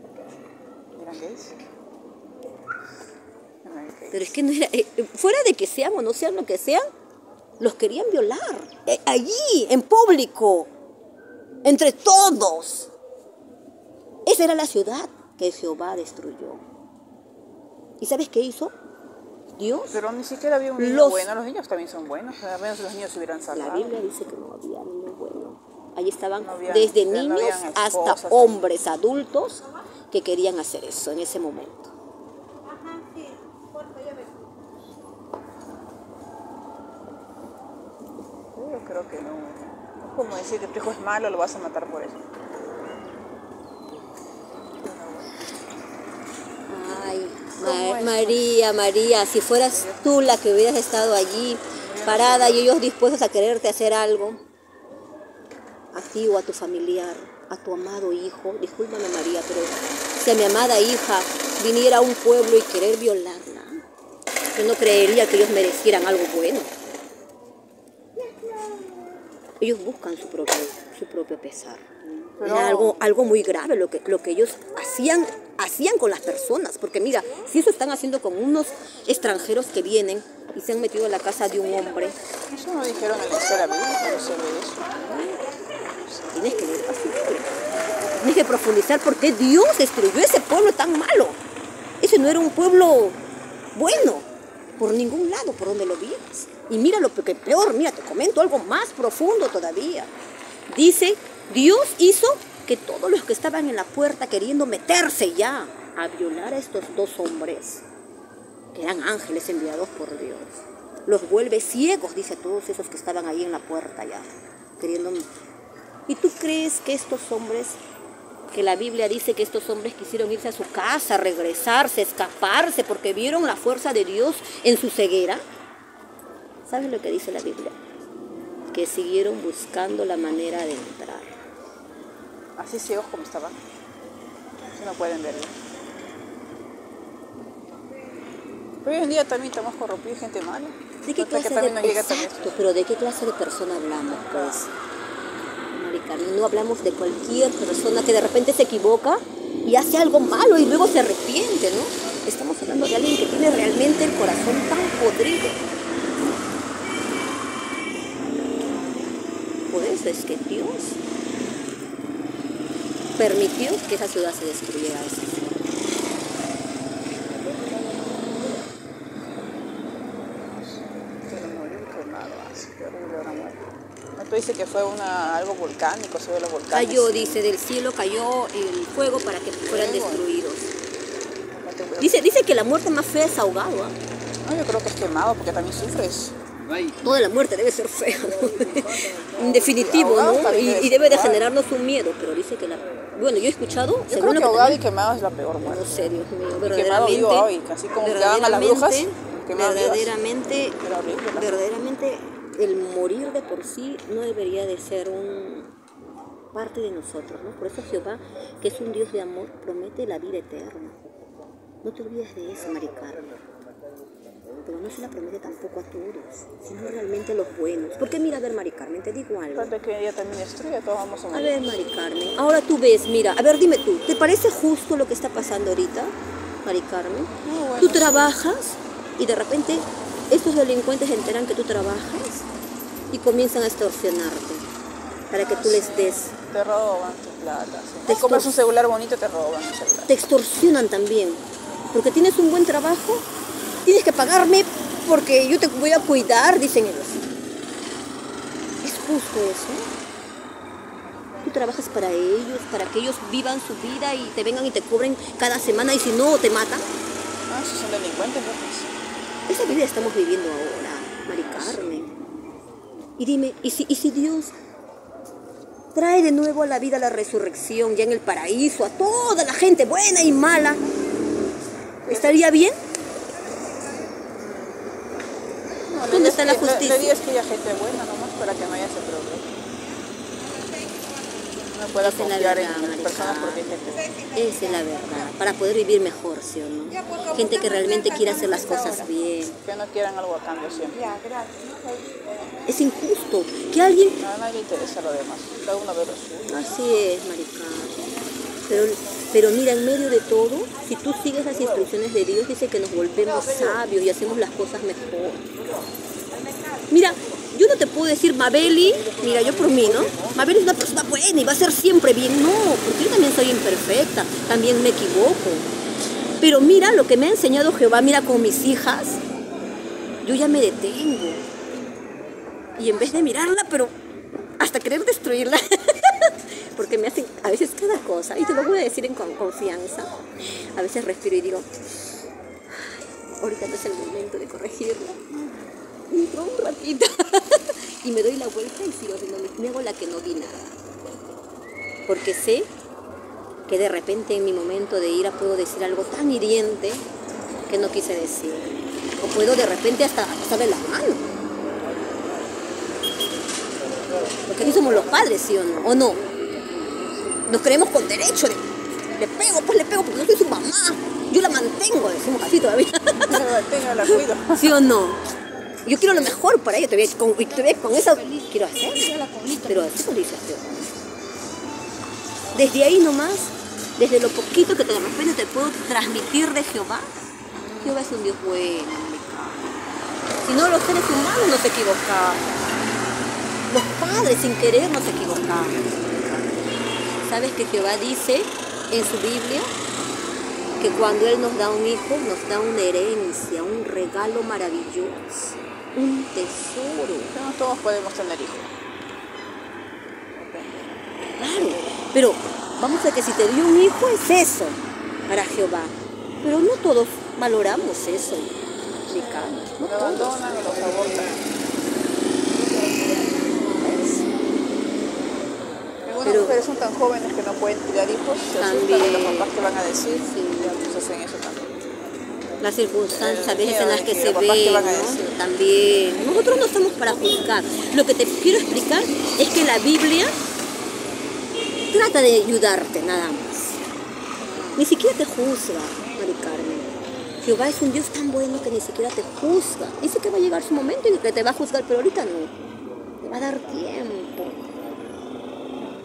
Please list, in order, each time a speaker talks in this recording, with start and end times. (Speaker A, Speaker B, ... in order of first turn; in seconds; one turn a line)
Speaker A: 0.9-1.5
Speaker A: 3.6-4.3
Speaker B: 4.1-6.8
Speaker B: 7.6-10.7
Speaker B: 11.6-12.9
Speaker B: 14.3-16.6
Speaker B: 18.0-18.7
Speaker B: 19.6-20.0
Speaker A: 19.9-23.9
Speaker B: 20.8-21.3
Speaker B: 23.5-31.9
Speaker A: 26.4-28.7
Speaker A: 38.5-42.2
Speaker A: 44.6-45.5
Speaker B: 46.7-54.4
Speaker A: 47.8-48.3
Speaker A: 49.7-50.2
Speaker A: 51.8-52.8
Speaker B: 55.9-63.8
Speaker B: 64.5-66.7
Speaker B: 69.6-71.9
Speaker A: 72.4-73.0
Speaker B: 72.4-82.2
Speaker A: 82.5-85.1
Speaker B: 85.1-85.4
Speaker A: 85.9-86.3
Speaker B: 86.3-87.5
Speaker B: 88.2-91.4
Speaker B: 92.0-93.2
Speaker B: 93.8-94.3
Speaker B: 94.8-100.1
Speaker B: 100.7-107.8
Speaker B: 108.7-115.3
Speaker B: 116.1-117.8
Speaker B: 118.5-125.4
Speaker B: 126.7-127.8
Speaker B: 128.7-131.4
Speaker A: 132.6-133.6
Speaker A: 134.7-135.5
Speaker A: 138.8-142.6
Speaker B: 141.0-144.7
Speaker A: 144.1-144.6
Speaker B: 145.7-155.6
Speaker B: 159.7-161.0
Speaker B: 163.2-165.4
Speaker A: 171.3-173.6
Speaker A: 174.2-177.4
Speaker B: 176.7-180.7
Speaker A: 179.7-180.3
Speaker A: 181.5-182.4
Speaker B: 182.0-184.0
Speaker A: 184.4-186.3
Speaker B: 187.0-194.8
Speaker A: 189.5-191.4
Speaker A: 194.1-196.1
Speaker B: 195.6-200.8
Speaker A: 196.7-200.2
Speaker A: 200.8-201.7
Speaker B: 201.3-205.7
Speaker B: 206.5-211.0
Speaker B: 211.8-213.3
Speaker B: 214.6-219.7
Speaker A: 219.6-221.7
Speaker B: 221.3-226.1
Speaker B: 226.7-232.4
Speaker A: 227.4-228.4
Speaker B: 233.1-234.7
Speaker B: 235.3-236.3
Speaker A: 235.4-240.1
Speaker B: 238.1-238.5
Speaker B: 240.1-241.4
Speaker B: 241.9-243.2
Speaker B: 243.8-247.3
Speaker B: 248.8-249.9
Speaker B: 251.4-256.9
Speaker A: 257.5-258.9
Speaker B: 259.5-262.1
Speaker A: 261.4-261.9
Speaker B: 263.2-264.5
Speaker B: 265.9-270.8
Speaker B: 272.1-272.8
Speaker A: 272.1-272.4
Speaker A: 274.4-274.8
Speaker A: 275.8-279.5
Speaker B: 276.0-277.2
Speaker A: 281.6-284.1
Speaker B: 282.0-289.6
Speaker A: 289.6-291.2
Speaker B: 292.7-294.2
Speaker A: 294.2-296.7
Speaker B: 296.5-298.1
Speaker B: 298.7-305.5
Speaker B: 306.9-315.7
Speaker B: 316.4-319.2
Speaker B: 320.2-321.4
Speaker B: 322.8-323.9
Speaker B: 324.6-331.7
Speaker B: 332.7-335.2
Speaker A: 335.4-335.7
Speaker B: 336.1-340.7
Speaker B: 342.1-342.7
Speaker B: 343.7-347.1
Speaker B: 347.7-351.2
Speaker B: 354.5-356.2
Speaker B: 357.5-363.4
Speaker A: 363.2-364.8
Speaker B: 364.1-365.2
Speaker B: 365.9-370.9
Speaker B: 372.5-377.1
Speaker A: 377.6-378.0
Speaker B: 377.8-379.8
Speaker B: 380.4-382.4
Speaker B: 383.7-389.7
Speaker B: 390.8-397.4
Speaker A: 397.3-398.7
Speaker A: 400.4-401.0
Speaker B: 401.4-408.5
Speaker B: 409.1-410.4
Speaker A: 409.8-411.4
Speaker B: 413.8-414.2
Speaker A: 416.1-421.8
Speaker B: 416.2-416.6
Speaker B: 418.6-419.5
Speaker B: 420.2-420.8
Speaker B: 422.6-430.4
Speaker A: 423.1-425.4
Speaker B: 431.9-433.8
Speaker B: 434.8-436.9
Speaker B: 437.4-442.5
Speaker B: 443.2-444.7